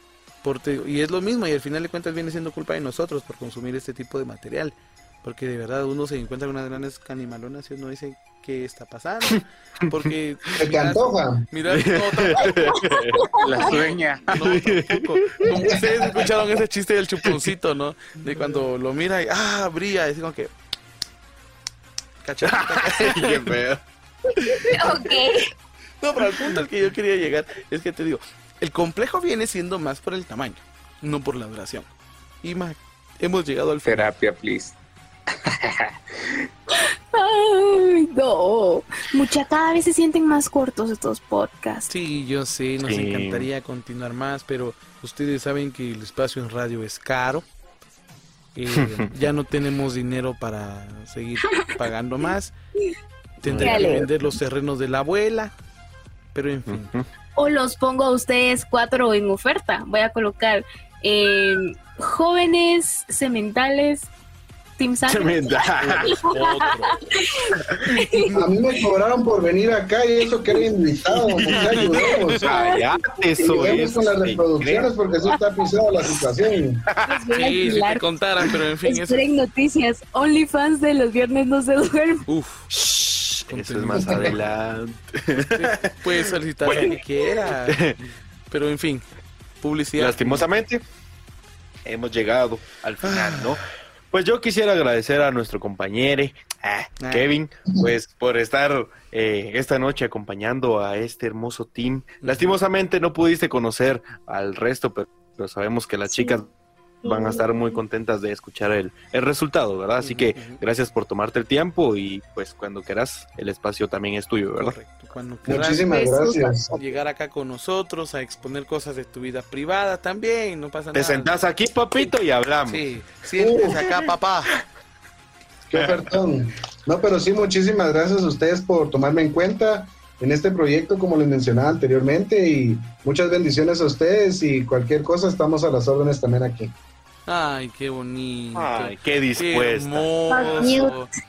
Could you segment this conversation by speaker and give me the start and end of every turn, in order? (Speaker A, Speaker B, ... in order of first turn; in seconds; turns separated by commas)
Speaker A: 0.4-12.7, Speaker B: 10.6-11.4, Speaker C: 11.7-13.2, Speaker D: 13.2-13.6, Speaker E: 13.4-14.5, Speaker A: 13.6-20.5, Speaker C: 14.4-16.2, Speaker A: 22.2-23.6, Speaker C: 22.4-23.8, Speaker C: 24.4-24.7, Speaker D: 24.6-25.5, Speaker A: 26.0-31.9, Speaker A: 32.4-34.1, Speaker E: 33.8-34.8, Speaker E: 35.6-35.9, Speaker D: 36.8-41.9, Speaker A: 41.9-47.5, Speaker C: 42.8-43.5, Speaker A: 48.5-52.5, Speaker C: 48.7-49.1, Speaker A: 53.4-55.5, Speaker C: 53.4-54.3, Speaker D: 53.6-54.0, Speaker A: 56.3-57.0, Speaker C: 56.7-57.0, Speaker D: 57.4-64.1, Speaker D: 64.8-68.4, Speaker C: 65.1-66.2, Speaker A: 65.8-67.0, Speaker C: 67.8-68.0, Speaker B: 68.3-72.5, Speaker C: 71.4-71.8, Speaker A: 71.5-72.5, Speaker D: 72.4-73.8, Speaker C: 72.4-74.9, Speaker B: 73.5-76.8, Speaker C: 76.9-77.7, Speaker D: 77.0-78.0, Speaker A: 77.3-79.3, Speaker D: 78.9-82.2, Speaker A: 82.3-82.7, Speaker C: 82.7-85.9, Speaker A: 83.5-84.5, Speaker B: 84.0-84.3, Speaker A: 85.4-87.8, Speaker C: 86.6-87.0, Speaker C: 87.6-88.0, Speaker A: 88.5-89.0, Speaker A: 89.6-90.5, Speaker C: 90.0-90.8, Speaker C: 91.8-106.5, Speaker A: 93.0-93.6, Speaker A: 97.0-97.3, Speaker A: 102.2-102.6, Speaker D: 106.0-106.4, Speaker D: 107.0-107.8, Speaker C: 107.0-114.7, Speaker A: 110.0-110.6, Speaker A: 114.6-116.0, Speaker B: 115.5-116.8, Speaker D: 115.9-116.5, Speaker A: 116.7-121.3, Speaker C: 120.9-122.8, Speaker A: 122.7-124.5, Speaker B: 123.4-123.7, Speaker B: 125.7-136.7, Speaker A: 137.2-141.1, Speaker C: 138.5-140.7, Speaker D: 140.3-140.9